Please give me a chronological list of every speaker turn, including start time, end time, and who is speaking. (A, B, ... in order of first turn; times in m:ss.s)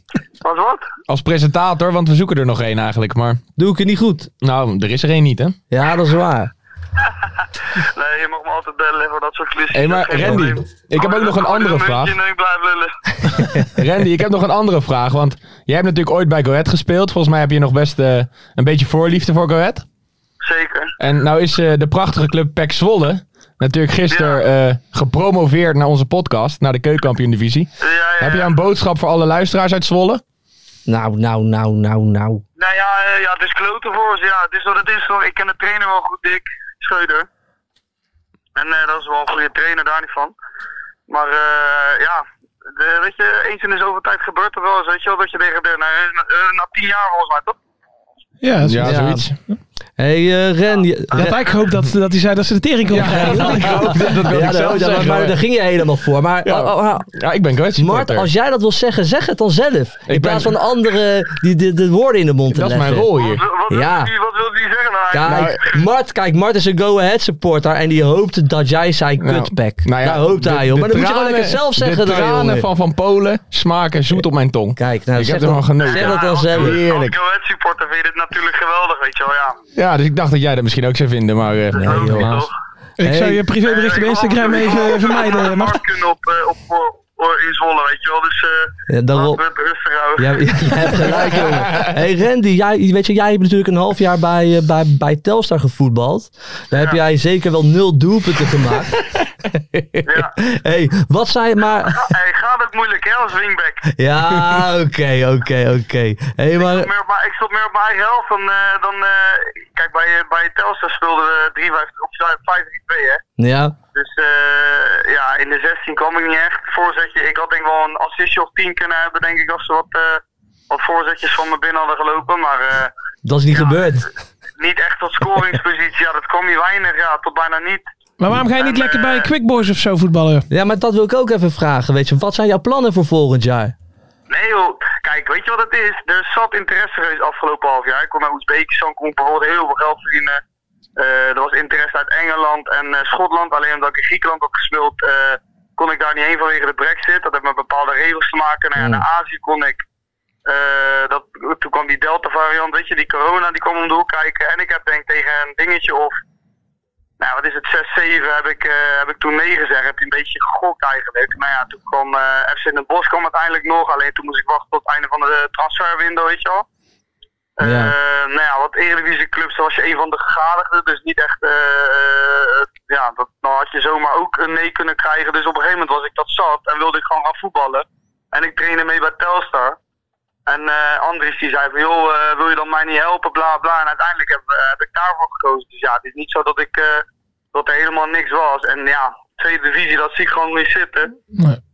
0:00.4-0:00.9 A
0:01.1-0:03.4 B
0:03.6-0:04.3 C
0:04.4-0:05.6 B
0:05.7-0:06.5 C
0:07.8-0:12.9 A
0:09.7-0:12.1 B
0:13.7-0:19.8 B
0:20.4-0:20.9 A
0:21.0-0:30.2 B
0:24.1-0:24.4 A
0:27.8-0:28.5 A
0:30.9-0:32.4 C
0:32.6-0:37.3 A
0:38.6-0:40.3 A
0:41.1-0:47.6 A
0:48.4-0:49.0 D
0:48.6-0:49.3 B
0:48.8-0:49.3 C
0:50.0-0:51.4 C
0:51.1-0:54.0 D
0:52.9-0:55.4 B
0:53.0-0:57.1 C
0:56.4-0:58.3 B
0:57.8-1:03.1 C
1:00.1-1:00.5 B
1:02.5-1:03.4 B
1:03.2-1:05.8 A
1:03.7-1:04.1 C
1:05.1-1:12.7 C
1:05.2-1:05.6 B
1:09.2-1:17.2 B
1:14.8-1:16.8 C
1:15.8-1:19.6 A
1:19.8-1:22.5 B
1:21.7-1:22.5 A
1:21.8-1:22.3 C
1:23.0-1:25.8 D
1:23.0-1:23.4 C
1:23.6-1:31.0 A
1:28.9-1:29.4 C
1:30.2-1:42.1 C
1:36.7-1:37.0 A
1:40.0-1:40.3 A
1:41.8-1:43.8 A
1:43.9-1:46.9 C
1:46.6-1:53.2 A
1:53.4-1:53.8 C
1:53.9-2:02.9 A
2:03.2-2:04.1 C
2:03.5-2:04.0 A
2:04.6-2:07.8 A
2:08.2-2:10.5 D
2:08.6-2:09.3 A
2:10.5-2:13.7 C
2:14.3-2:20.4 A
2:21.0-2:29.8 A
2:28.8-2:29.0 C
2:30.4-2:36.2 A
2:37.2-2:46.6 A
2:47.6-2:59.8 A
2:47.6-2:47.9 C
3:00.5-3:11.1 A